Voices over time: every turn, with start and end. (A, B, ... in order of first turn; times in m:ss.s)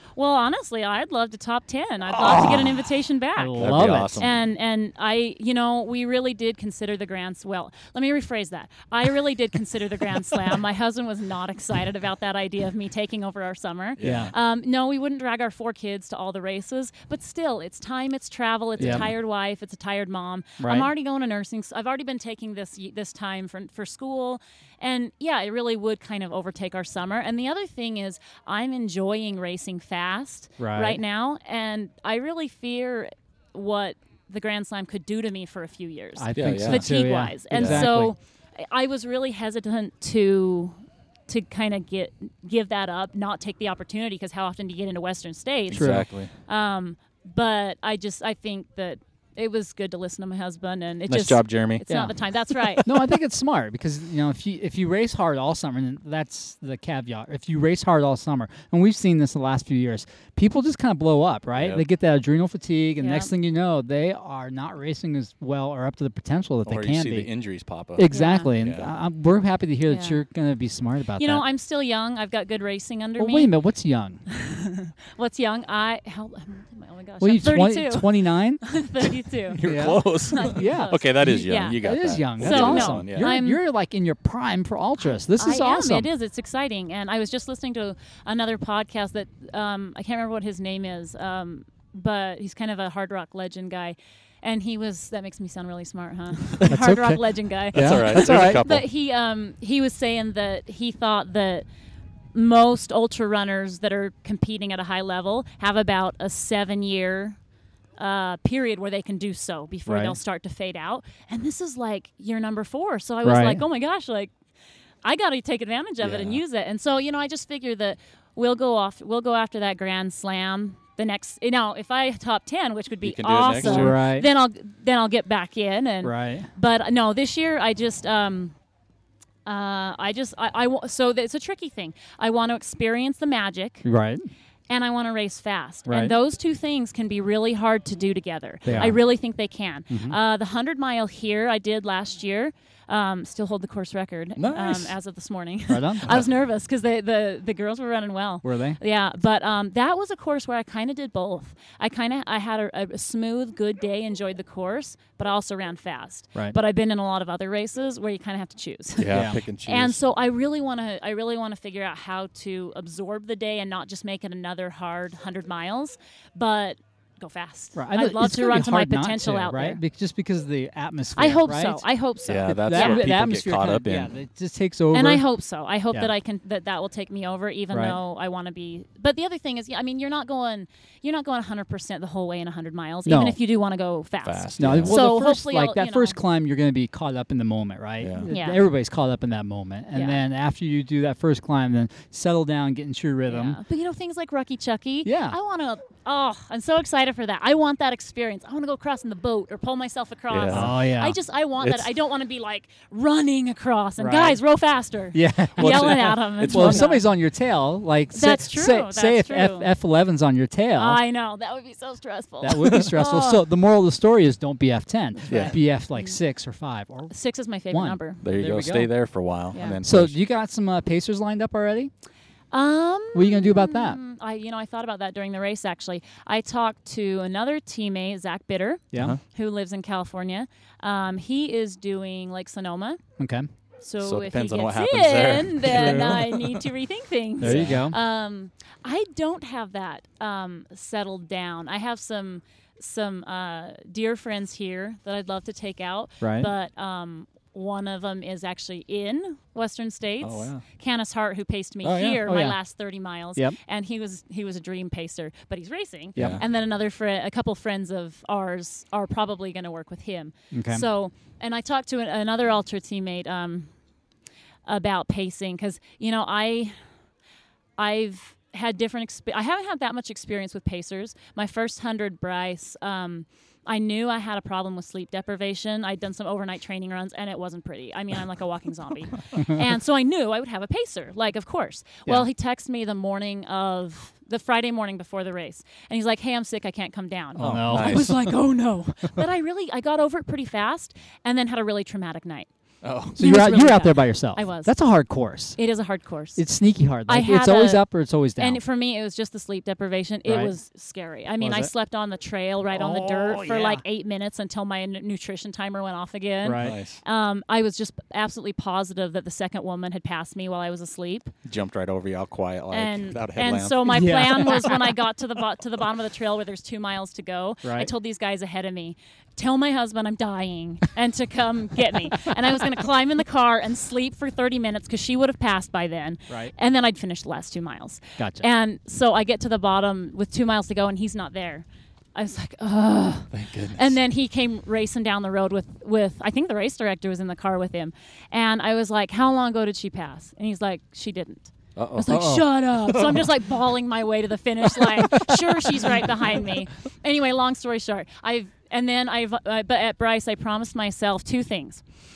0:00.1-0:52.9 A
0:02.1-0:03.0 B
0:03.4-0:04.3 C
0:03.6-0:04.4 B
0:14.0-0:14.3 C
0:14.0-0:14.3 B
0:18.8-0:19.1 C
0:18.8-0:19.1 B
0:20.6-0:20.9 C
0:30.6-0:31.0 C
0:36.2-0:38.1 C
0:36.3-0:36.9 B
0:37.5-0:37.9 B
0:45.7-0:46.3 B
0:45.7-0:46.1 C
0:51.1-0:52.1 B
0:51.9-0:52.2 C
0:52.7-1:07.3 C
1:01.6-1:01.8 B
1:03.0-1:03.3 A
1:06.6-1:08.9 B
1:07.9-1:11.4 C
1:08.1-1:08.5 A
1:09.8-1:10.2 A
1:11.2-1:13.5 A
1:13.2-1:14.2 C
1:14.3-1:23.6 A
1:17.2-1:18.8 C
1:19.5-1:23.3 B
1:19.6-1:26.1 C
1:25.3-1:41.7 A
1:36.7-1:38.8 C
1:37.7-1:38.8 B
1:42.3-1:47.4 A
1:48.0-1:54.3 A
1:49.8-1:50.2 C
1:53.2-1:53.6 C
1:55.0-2:08.6 A
1:56.0-1:56.4 B
2:03.0-2:04.0 B
2:03.6-2:04.3 C
2:06.0-2:06.5 C
2:09.4-2:13.9 A
2:13.8-2:14.3 C
2:14.7-2:49.8 A
2:15.8-2:16.1 C
2:18.6-2:19.1 C
2:18.6-2:18.9 B
2:19.9-2:20.2 C
2:24.4-2:24.9 B
2:25.7-2:26.2 C
2:28.4-2:28.8 C
2:39.0-2:40.0 B
2:39.0-2:39.4 C
2:47.7-2:51.9 C
2:51.2-2:53.1 A
2:52.2-2:54.1 B
2:52.5-2:55.2 C
2:54.9-3:06.2 A
2:57.7-2:58.0 C
3:03.0-3:03.4 C
3:04.2-3:05.0 B
3:04.6-3:13.6 C
3:08.0-3:08.3 B
3:08.2-3:08.6 A
3:09.9-3:10.2 A
3:13.3-3:27.0 A
3:15.0-3:15.4 C
3:20.3-3:20.8 B
3:20.5-3:21.2 C
3:21.6-3:21.8 B
3:24.0-3:24.4 C
3:25.1-3:31.0 C
3:25.6-3:27.0 B
3:28.1-3:29.7 A
3:30.8-3:33.5 A
3:32.4-3:37.1 C
3:35.3-3:35.6 B
3:35.3-3:36.2 A
3:37.1-3:38.2 A
3:37.7-3:38.9 C
3:38.2-3:40.2 B
3:39.5-3:39.8 A
3:39.8-3:41.9 C
3:42.5-3:53.0 A
3:43.1-3:44.0 C
3:48.9-3:49.2 C
3:48.9-3:49.2 B
3:53.2-3:53.5 C
3:53.8-4:23.8 A
3:54.0-3:56.6 B
3:55.6-3:56.2 C
3:57.4-3:58.0 C
3:57.4-3:57.8 B
4:06.2-4:06.5 C
4:10.2-4:10.6 B
4:11.8-4:12.2 B
4:12.2-4:13.6 C
4:16.1-4:16.4 C
4:16.2-4:16.4 B
4:20.5-4:20.8 C
4:24.6-4:27.0 A
4:27.8-5:11.3 A
4:47.4-4:48.2 C
4:47.4-4:48.4 B
4:52.8-4:53.5 B
4:53.2-4:55.8 C
4:56.3-4:58.6 C
5:00.2-5:00.5 C
5:01.4-5:01.7 C
5:02.7-5:03.8 C
5:06.4-5:06.8 C
5:06.6-5:07.0 B
5:11.4-5:13.9 B
5:12.7-5:51.8 A
5:13.8-5:14.7 C
5:17.6-5:17.9 C
5:28.2-5:28.4 C
5:33.3-5:33.9 B
5:41.7-5:43.3 B
5:42.1-5:42.5 C